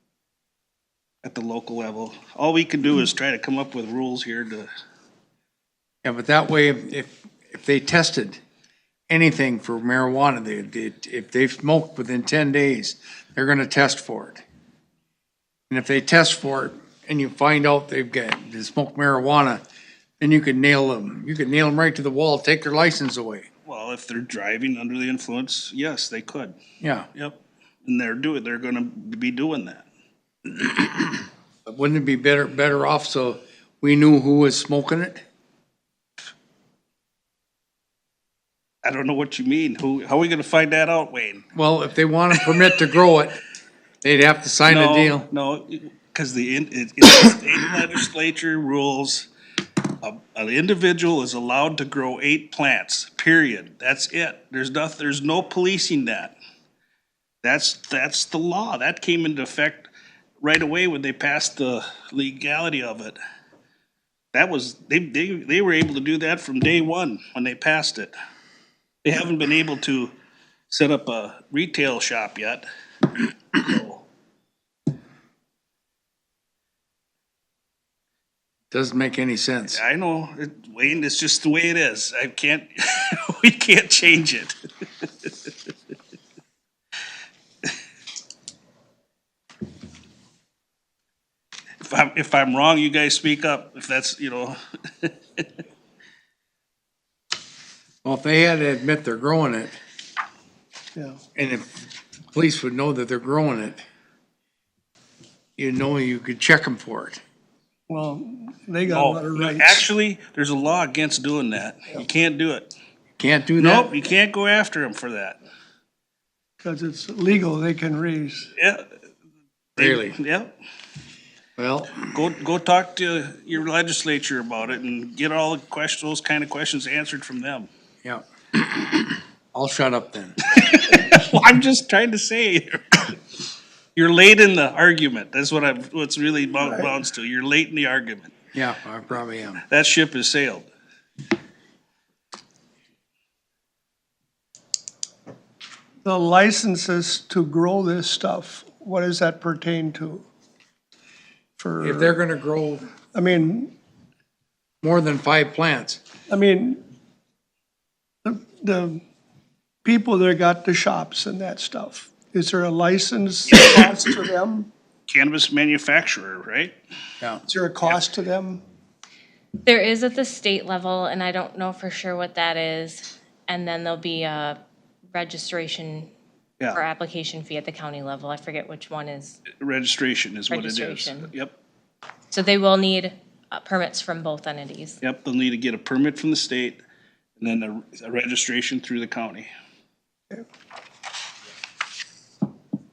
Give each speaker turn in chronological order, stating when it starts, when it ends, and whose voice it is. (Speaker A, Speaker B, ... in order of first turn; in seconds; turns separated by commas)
Speaker A: 1.2-4.7, Speaker B: 6.0-8.4, Speaker B: 9.1-14.4, Speaker B: 15.7-19.6, Speaker B: 20.2-23.5, Speaker A: 23.6-26.6, Speaker B: 26.8-27.1, Speaker A: 27.1-29.9, Speaker B: 31.6-35.2, Speaker A: 38.8-41.4, Speaker B: 41.5-43.4, Speaker B: 44.0-45.3, Speaker A: 44.6-49.3, Speaker A: 50.0-56.3, Speaker A: 57.4-59.9, Speaker A: 60.4-63.2, Speaker A: 64.3-68.1, Speaker A: 69.0-70.1, Speaker A: 70.7-72.6, Speaker A: 73.5-74.0, Speaker B: 78.7-79.8, Speaker A: 79.7-85.5, Speaker A: 91.8-95.5, Speaker B: 98.0-99.8, Speaker B: 101.3-101.7, Speaker B: 102.3-103.8, Speaker B: 105.6-107.2, Speaker C: 107.9-109.9, Speaker A: 108.9-112.7, Speaker B: 113.2-113.9, Speaker A: 113.6-115.4, Speaker C: 116.6-118.5, Speaker A: 118.6-118.8, Speaker A: 119.8-120.5, Speaker B: 119.8-120.2, Speaker B: 121.6-122.0, Speaker A: 122.1-127.7, Speaker B: 128.0-130.4, Speaker A: 130.5-133.2, Speaker A: 133.9-138.3, Speaker B: 138.5-139.6, Speaker A: 139.7-140.7, Speaker C: 146.0-150.2, Speaker C: 151.6-152.2, Speaker B: 151.8-152.9, Speaker C: 153.1-153.7, Speaker B: 154.8-156.0, Speaker C: 156.3-156.8, Speaker C: 158.2-159.0, Speaker C: 159.8-164.7, Speaker A: 163.5-163.9, Speaker A: 165.1-166.8, Speaker C: 167.4-168.6, Speaker D: 169.6-174.6, Speaker D: 175.1-176.1, Speaker D: 176.7-179.4, Speaker A: 179.6-181.5, Speaker D: 180.5-181.3, Speaker D: 182.3-185.0, Speaker A: 185.0-186.8, Speaker A: 187.4-189.5